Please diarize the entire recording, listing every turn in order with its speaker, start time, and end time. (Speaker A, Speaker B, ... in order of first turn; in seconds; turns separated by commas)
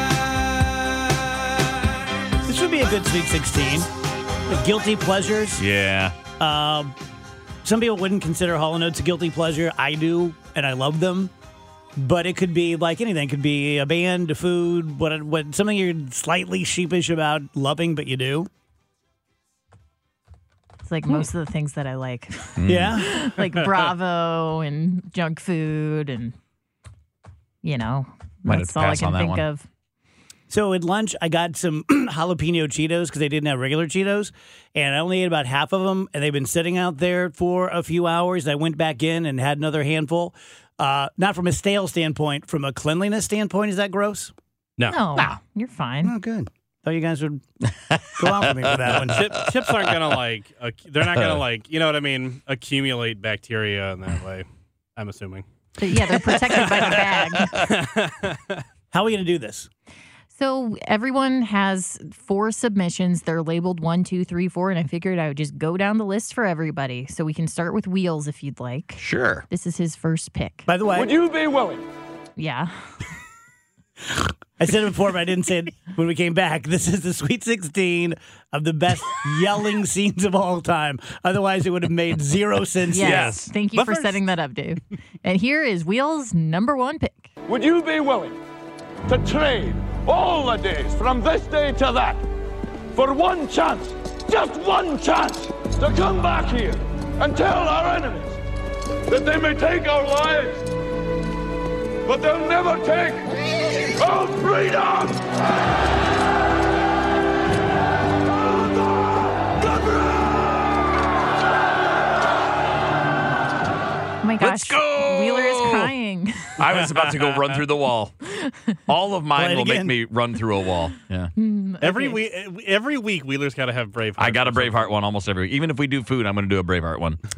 Speaker A: 2.4-3.9, Speaker A: 4.5-5.6, Speaker B: 5.6-6.2, Speaker A: 6.3-6.9, Speaker A: 7.6-11.3, Speaker A: 12.0-18.5, Speaker C: 20.8-26.4, Speaker B: 22.6-22.9, Speaker A: 22.6-23.1, Speaker C: 27.6-29.6, Speaker B: 28.4-29.4, Speaker A: 30.5-44.3, Speaker C: 44.9-46.1, Speaker A: 46.0-47.4, Speaker B: 47.9-48.7, Speaker A: 48.2-49.3, Speaker D: 49.0-55.4, Speaker C: 55.8-57.5, Speaker B: 56.5-57.7, Speaker D: 57.5-58.6, Speaker A: 58.9-59.7, Speaker C: 60.3-70.7, Speaker B: 69.0-69.5, Speaker A: 70.7-71.2, Speaker C: 72.4-72.7, Speaker A: 74.6-83.4, Speaker C: 82.9-87.3, Speaker B: 83.0-83.5, Speaker D: 83.8-84.1, Speaker E: 87.5-88.3, Speaker E: 89.2-92.0, Speaker E: 93.3-93.8, Speaker E: 94.4-95.5, Speaker E: 96.1-96.6, Speaker E: 97.3-98.2, Speaker E: 99.1-100.5, Speaker E: 102.1-103.1, Speaker E: 104.0-104.9, Speaker C: 114.2-116.6, Speaker B: 114.4-115.9, Speaker B: 116.6-118.1, Speaker C: 118.2-118.8, Speaker B: 118.9-121.3, Speaker A: 119.3-120.0, Speaker C: 121.4-122.2, Speaker D: 121.8-124.9, Speaker B: 124.2-127.2